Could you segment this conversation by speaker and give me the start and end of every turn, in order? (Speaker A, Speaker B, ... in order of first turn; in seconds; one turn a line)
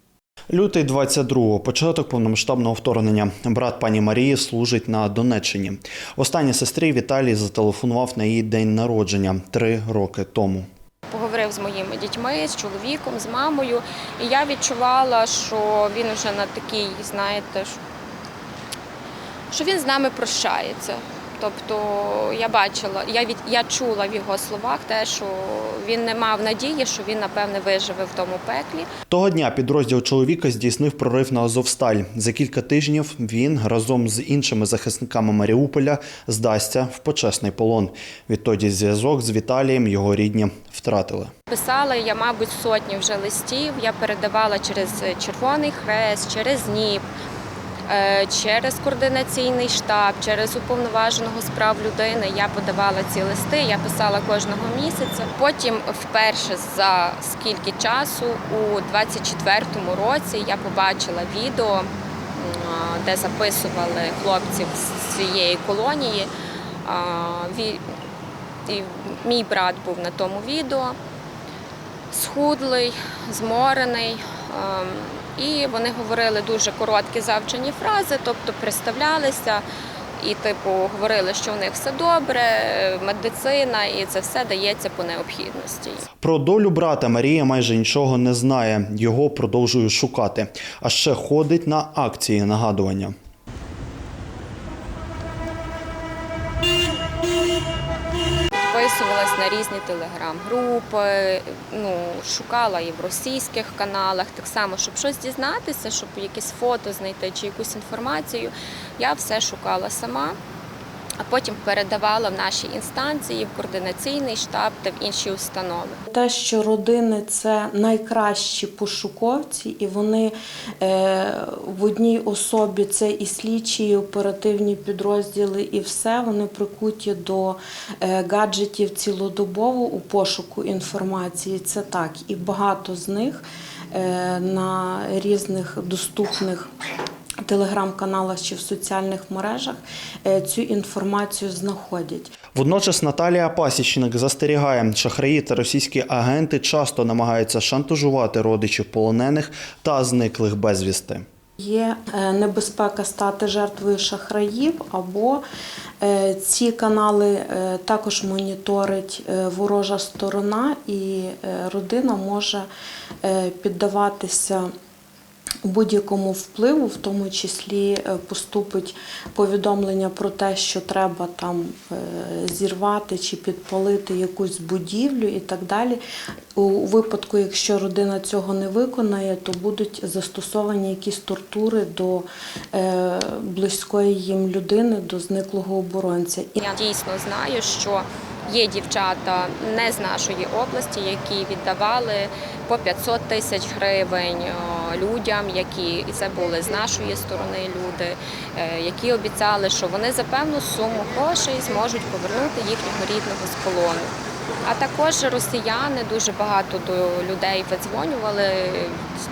Speaker A: 0.5-10.7
Speaker B: 11.1-17.8
Speaker B: 19.5-28.9
Speaker A: 29.1-41.3
Speaker B: 41.5-47.1
Speaker B: 47.9-66.3
Speaker B: 66.8-67.8
Speaker B: 68.7-71.0
Speaker B: 72.1-79.6
Speaker B: 80.2-86.1
Speaker A: 86.2-93.1
Speaker B: 98.5-110.4
Speaker B: 111.2-116.0
Speaker C: 116.1-136.7
Speaker C: 137.4-142.3
Speaker A: 142.5-151.2
Speaker C: 151.6-155.4
Speaker C: 156.0-162.7
Speaker C: 163.2-164.7
Speaker C: 165.6-176.0
Speaker C: 176.6-186.6
Speaker B: 186.6-204.1
Speaker B: 204.6-209.0